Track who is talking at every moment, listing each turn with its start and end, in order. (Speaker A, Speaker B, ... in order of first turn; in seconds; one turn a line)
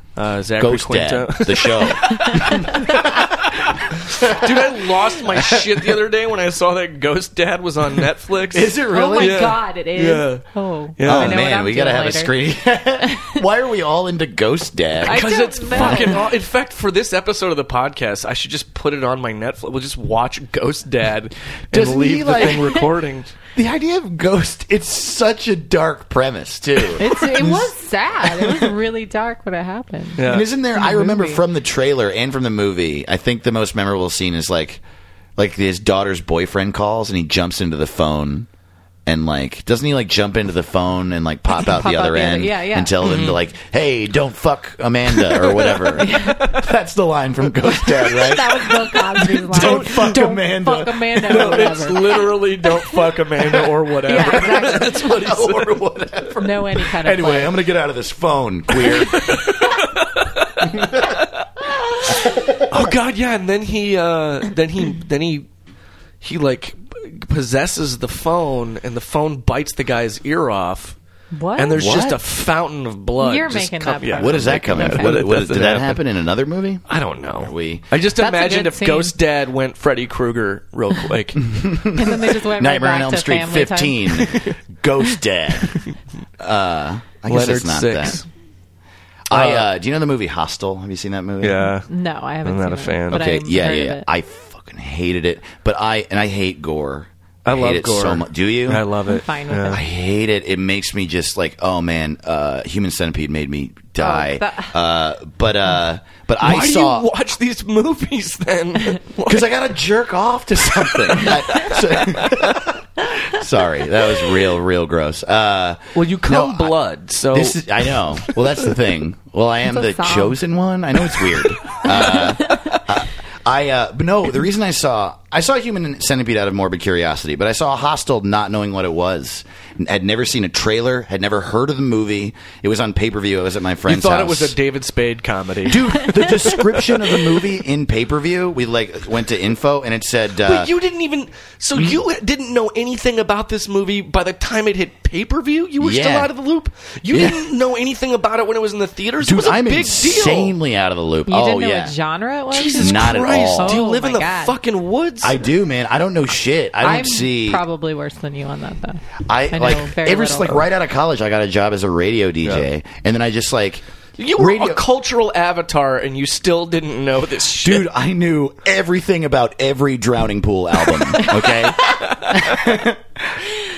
Speaker A: 0.1-10.4
Speaker B: 0.6-3.3
Speaker C: 2.2-2.8
Speaker B: 4.1-4.7
Speaker B: 5.3-5.9
Speaker B: 8.5-9.5
Speaker C: 8.9-12.3
Speaker A: 11.0-11.4
Speaker B: 11.1-16.2
Speaker C: 13.0-13.4
Speaker C: 15.0-16.3
Speaker A: 15.0-23.3
Speaker B: 21.7-22.8
Speaker B: 23.5-27.7
Speaker C: 27.0-31.4
Speaker B: 28.2-28.7
Speaker A: 30.2-30.5
Speaker B: 30.2-34.8
Speaker B: 35.4-38.5
Speaker B: 39.0-51.8
Speaker C: 41.6-43.0
Speaker A: 43.0-43.4
Speaker A: 45.1-46.6
Speaker C: 46.0-46.4
Speaker C: 47.8-52.8
Speaker A: 49.5-50.2
Speaker A: 51.2-56.8
Speaker C: 54.0-55.0
Speaker B: 54.1-59.3
Speaker C: 56.4-57.6
Speaker A: 58.7-61.5
Speaker B: 60.7-61.0
Speaker A: 62.1-65.5
Speaker B: 62.2-62.9
Speaker A: 66.2-71.0
Speaker C: 71.3-72.2
Speaker A: 71.5-76.0
Speaker B: 71.8-72.2
Speaker C: 73.2-75.2
Speaker B: 74.2-76.8
Speaker A: 76.9-81.5
Speaker B: 77.4-77.8
Speaker C: 78.2-79.1
Speaker B: 81.4-85.8
Speaker C: 81.9-84.3
Speaker A: 84.2-84.6
Speaker B: 86.4-88.2
Speaker A: 87.3-88.2
Speaker B: 89.3-91.7
Speaker A: 89.3-89.7
Speaker A: 91.4-91.9
Speaker C: 91.9-94.0
Speaker A: 92.4-93.3
Speaker B: 93.1-98.9
Speaker A: 97.4-99.8
Speaker C: 99.0-99.8
Speaker B: 99.7-107.1
Speaker C: 104.0-104.7
Speaker A: 106.4-109.5
Speaker B: 109.2-116.8
Speaker A: 111.1-112.6
Speaker A: 115.9-118.3
Speaker B: 117.3-134.6
Speaker C: 119.7-120.4
Speaker C: 121.9-122.5
Speaker A: 133.8-136.9
Speaker B: 135.6-140.7
Speaker A: 140.4-150.5
Speaker B: 145.8-146.3
Speaker B: 147.1-147.4
Speaker B: 149.2-151.9
Speaker C: 151.3-154.6
Speaker A: 152.5-155.4
Speaker B: 152.8-153.8
Speaker B: 155.2-157.6
Speaker C: 156.8-160.6
Speaker B: 159.2-164.8
Speaker A: 164.2-167.8
Speaker B: 167.6-173.4
Speaker A: 171.8-172.6